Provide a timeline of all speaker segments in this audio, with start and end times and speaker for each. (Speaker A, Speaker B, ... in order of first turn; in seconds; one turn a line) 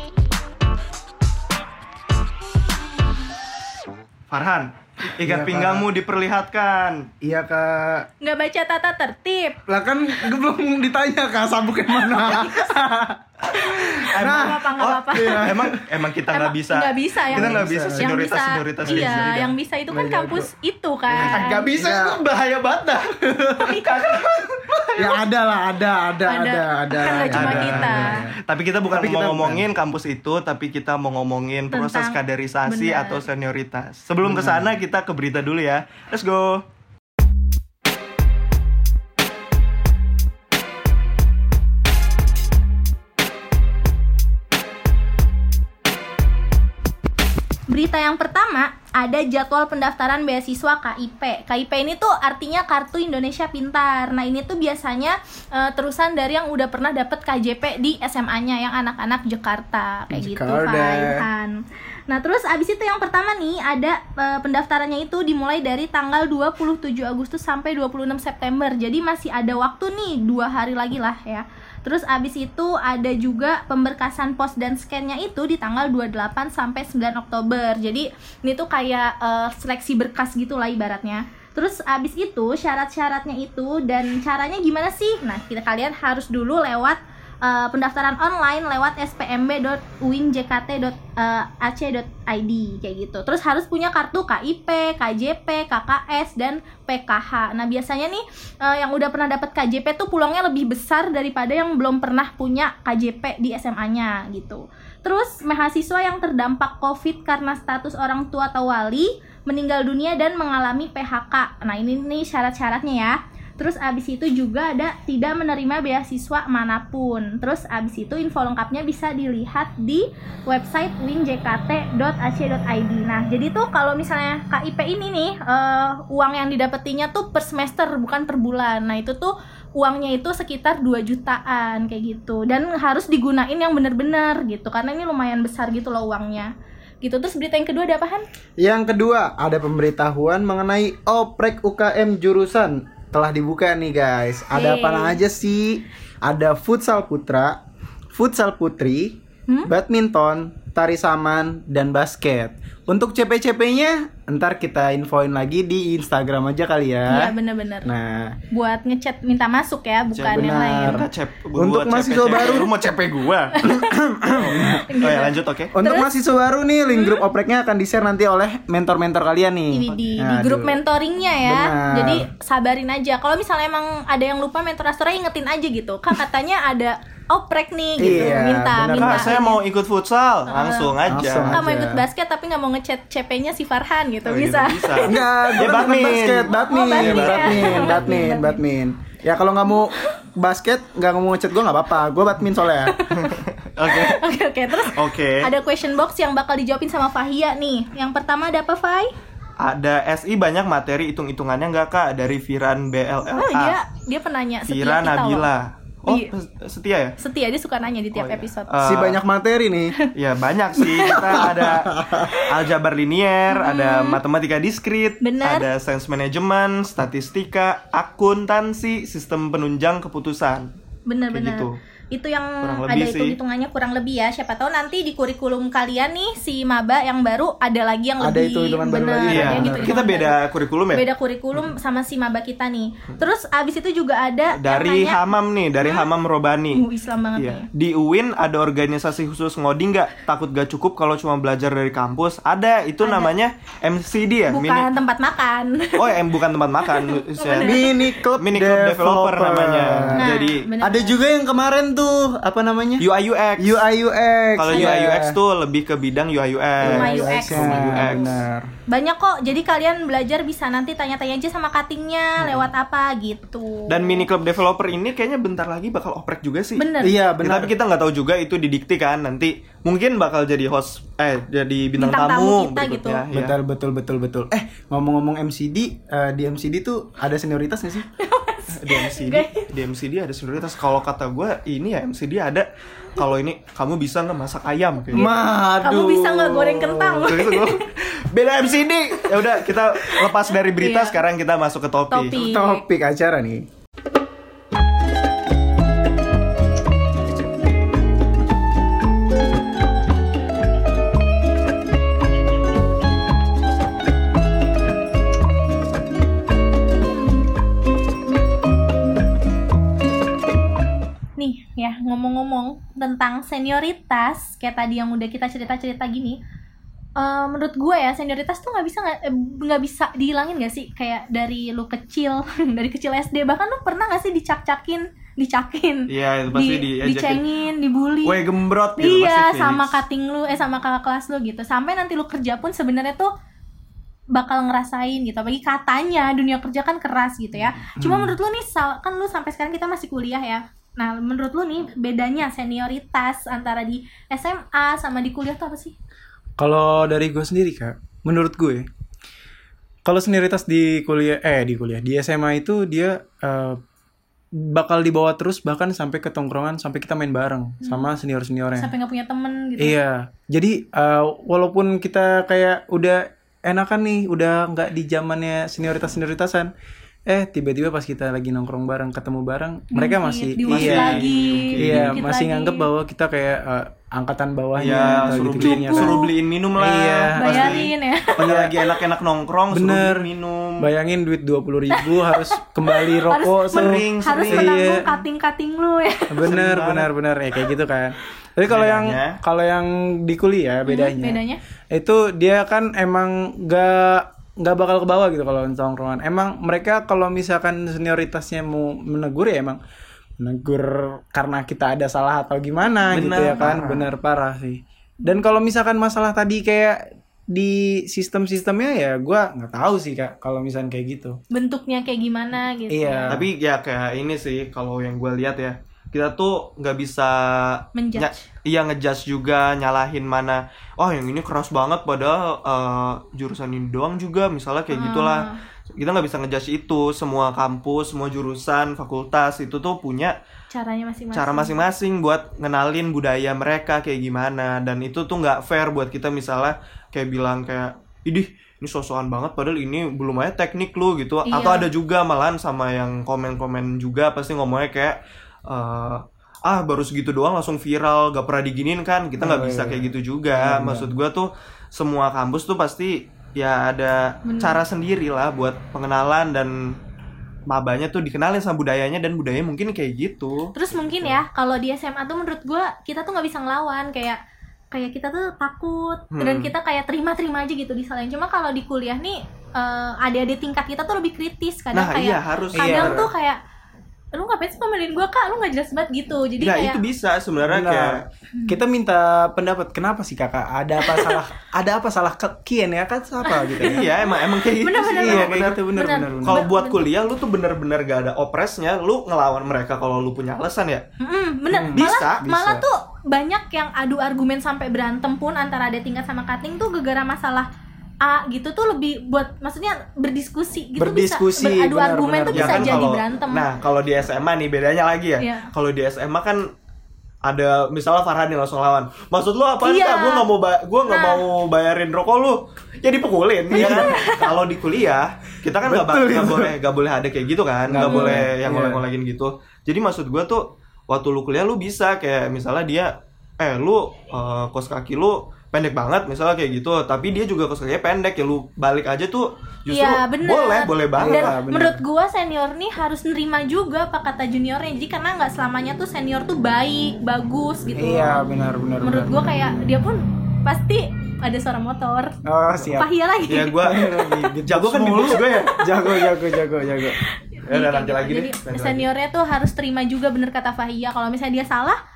Speaker A: 4.3-7.1
Speaker B: 5.2-5.9
Speaker B: 7.2-8.1
Speaker C: 8.2-9.6
Speaker B: 9.7-15.8
Speaker C: 12.1-12.7
Speaker A: 14.1-19.6
Speaker C: 14.2-15.5
Speaker C: 16.3-21.7
Speaker B: 17.3-18.1
Speaker B: 18.8-19.3
Speaker B: 19.9-20.5
Speaker B: 21.1-22.2
Speaker A: 21.1-23.2
Speaker B: 23.3-23.8
Speaker C: 23.6-24.2
Speaker A: 23.8-25.2
Speaker B: 24.9-28.4
Speaker C: 26.3-28.2
Speaker A: 27.2-36.6
Speaker B: 28.9-29.6
Speaker C: 31.7-33.2
Speaker B: 34.2-34.7
Speaker C: 47.7-61.5
Speaker B: 60.1-61.2
Speaker C: 62.1-136.5
Speaker C: 137.0-138.2
Speaker B: 138.6-147.6
Speaker C: 144.5-145.2
Speaker B: 148.1-158.3
Speaker C: 157.1-157.9
Speaker C: 158.5-161.0
Speaker A: 160.1-163.7
Speaker B: 160.3-162.7
Speaker C: 163.6-163.8
Speaker B: 163.7-164.8
Speaker A: 164.3-165.7
Speaker C: 164.7-166.1
Speaker B: 165.7-170.8
Speaker C: 166.9-167.2
Speaker C: 169.7-179.6
Speaker B: 171.4-172.3
Speaker B: 178.0-179.3
Speaker A: 178.0-178.4
Speaker A: 178.9-181.7
Speaker C: 180.5-180.9
Speaker B: 181.1-182.0
Speaker C: 181.4-185.8
Speaker A: 184.2-188.1
Speaker B: 185.1-192.9
Speaker C: 186.5-188.6
Speaker C: 189.7-190.1
Speaker C: 192.8-199.1
Speaker A: 193.1-194.2
Speaker A: 194.8-195.5
Speaker A: 199.6-203.8
Speaker C: 203.3-205.5
Speaker A: 204.7-207.1
Speaker C: 207.2-208.8
Speaker A: 208.1-209.2
Speaker B: 208.8-209.9
Speaker A: 210.1-220.7
Speaker C: 210.8-211.5
Speaker B: 211.3-212.2
Speaker C: 212.1-212.4
Speaker C: 213.5-214.2
Speaker C: 215.2-215.7
Speaker C: 221.1-230.4
Speaker A: 221.3-221.7
Speaker A: 222.6-223.4
Speaker B: 228.2-230.0
Speaker A: 229.3-231.7
Speaker C: 230.9-235.3
Speaker A: 234.6-236.8
Speaker C: 235.8-236.1
Speaker C: 236.7-237.7
Speaker A: 237.4-244.9
Speaker C: 243.0-243.3
Speaker C: 244.5-246.2
Speaker A: 245.9-250.6
Speaker C: 246.8-248.1
Speaker B: 247.6-250.3
Speaker C: 250.2-251.2
Speaker B: 250.8-253.1
Speaker A: 253.0-253.9
Speaker B: 253.6-255.4
Speaker A: 254.6-258.4
Speaker B: 256.8-258.7
Speaker C: 256.8-258.3
Speaker C: 258.9-264.3
Speaker A: 262.4-262.7
Speaker A: 263.9-273.6
Speaker C: 266.8-267.2
Speaker B: 267.0-267.7
Speaker C: 272.0-273.2
Speaker B: 273.3-278.1
Speaker C: 278.2-279.7
Speaker A: 278.7-285.3
Speaker B: 285.1-287.4
Speaker C: 285.1-287.8
Speaker A: 287.2-292.4
Speaker C: 290.8-291.2
Speaker C: 292.1-292.8
Speaker B: 292.3-293.6
Speaker C: 311.4-316.4
Speaker C: 317.2-328.4
Speaker A: 326.1-327.4
Speaker A: 328.2-330.0
Speaker C: 329.0-333.3
Speaker C: 334.3-345.9
Speaker B: 338.0-338.4
Speaker B: 346.6-348.9
Speaker B: 350.0-353.8
Speaker B: 354.6-358.9
Speaker C: 357.8-358.1
Speaker C: 358.7-360.0
Speaker B: 359.8-366.7
Speaker B: 367.3-376.1
Speaker C: 369.9-372.9
Speaker A: 370.7-372.2
Speaker A: 374.8-380.9
Speaker C: 374.9-376.3
Speaker B: 376.8-377.9
Speaker C: 377.3-378.9
Speaker B: 378.4-378.7
Speaker B: 379.7-385.1
Speaker C: 381.9-386.5
Speaker A: 383.7-384.8
Speaker B: 386.3-399.8
Speaker A: 386.4-387.1
Speaker A: 388.6-389.4
Speaker C: 390.9-391.6
Speaker B: 400.4-411.4
Speaker A: 403.1-404.1
Speaker C: 411.5-413.4
Speaker B: 412.9-413.5
Speaker A: 413.3-430.3
Speaker C: 417.9-418.5
Speaker C: 424.9-425.6
Speaker C: 430.7-431.8
Speaker A: 431.3-456.7
Speaker C: 441.4-441.9
Speaker B: 449.4-451.1
Speaker C: 454.4-454.8
Speaker A: 457.7-461.4
Speaker C: 460.7-464.4
Speaker C: 464.9-473.6
Speaker A: 466.3-466.7
Speaker A: 471.9-473.3
Speaker B: 472.7-473.3
Speaker C: 474.3-477.0
Speaker A: 476.6-478.2
Speaker B: 477.6-484.1
Speaker C: 478.5-478.8
Speaker C: 481.0-481.4
Speaker C: 483.4-487.0
Speaker A: 483.8-485.8
Speaker B: 485.0-486.6
Speaker A: 486.4-491.0
Speaker C: 491.2-497.7
Speaker B: 491.7-492.8
Speaker A: 491.9-492.4
Speaker C: 498.2-503.7
Speaker B: 501.0-503.0
Speaker A: 502.5-506.6
Speaker C: 505.4-505.7
Speaker A: 507.4-531.5
Speaker C: 509.8-510.5
Speaker C: 511.1-511.4
Speaker B: 513.7-514.1
Speaker C: 513.7-514.5
Speaker B: 515.8-516.7
Speaker B: 517.9-519.0
Speaker C: 518.0-518.5
Speaker C: 529.9-538.4
Speaker B: 531.2-532.0
Speaker B: 537.9-539.5
Speaker C: 539.0-542.3
Speaker B: 542.5-543.1
Speaker C: 542.9-543.8
Speaker A: 543.5-544.0
Speaker B: 543.8-547.2
Speaker A: 544.6-545.7
Speaker C: 545.2-546.3
Speaker C: 547.5-552.0
Speaker A: 547.6-549.1